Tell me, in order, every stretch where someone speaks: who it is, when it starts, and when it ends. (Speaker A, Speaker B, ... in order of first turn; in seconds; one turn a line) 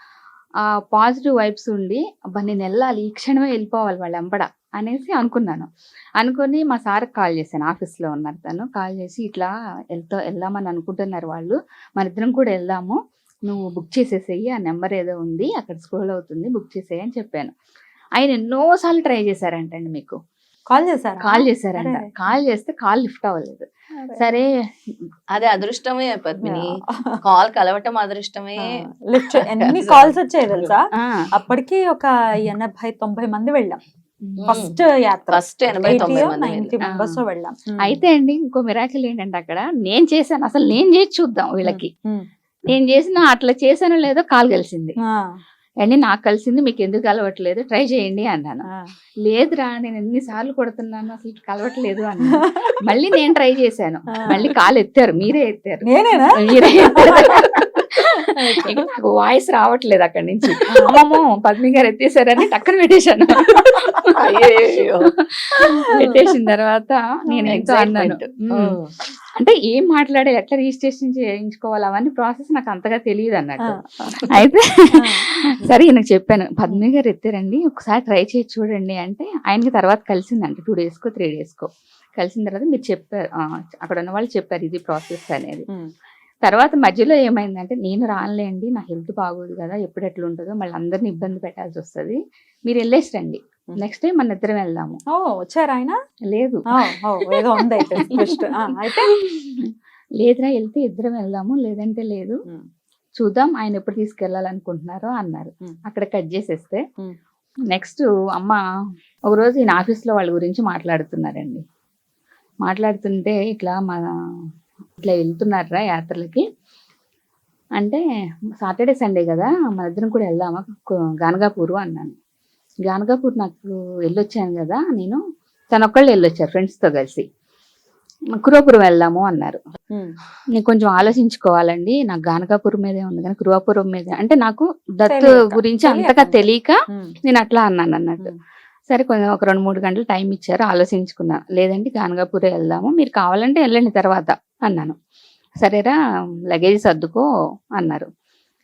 Speaker A: 0.9-17.5
Speaker A: 18.2-20.2
Speaker B: 20.7-22.1
Speaker A: 21.2-25.1
Speaker C: 25.3-30.7
Speaker B: 26.4-27.2
Speaker B: 28.6-33.8
Speaker A: 30.9-31.3
Speaker A: 34.2-34.6
Speaker C: 34.5-34.7
Speaker B: 34.5-38.0
Speaker C: 35.3-36.7
Speaker A: 36.8-37.2
Speaker A: 37.8-41.9
Speaker B: 41.6-42.3
Speaker A: 42.7-45.0
Speaker B: 45.1-45.4
Speaker A: 45.8-48.7
Speaker A: 49.2-68.8
Speaker B: 52.3-52.8
Speaker B: 54.2-54.5
Speaker B: 55.9-57.4
Speaker B: 60.7-61.0
Speaker C: 64.1-65.1
Speaker C: 65.8-66.2
Speaker B: 67.3-67.6
Speaker C: 67.5-68.9
Speaker A: 69.3-85.7
Speaker B: 73.6-74.2
Speaker B: 74.9-75.2
Speaker A: 86.4-95.0
Speaker B: 95.1-96.0
Speaker A: 96.3-102.4
Speaker B: 96.7-99.2
Speaker A: 103.2-106.8
Speaker A: 107.7-108.6
Speaker A: 109.3-111.6
Speaker A: 112.6-114.1
Speaker A: 115.0-116.5
Speaker A: 118.6-122.2
Speaker A: 122.9-127.3
Speaker A: 128.4-129.6
Speaker B: 129.9-130.2
Speaker A: 130.6-138.3
Speaker B: 135.1-137.2
Speaker A: 138.9-145.0
Speaker A: 145.6-146.0
Speaker A: 146.5-148.1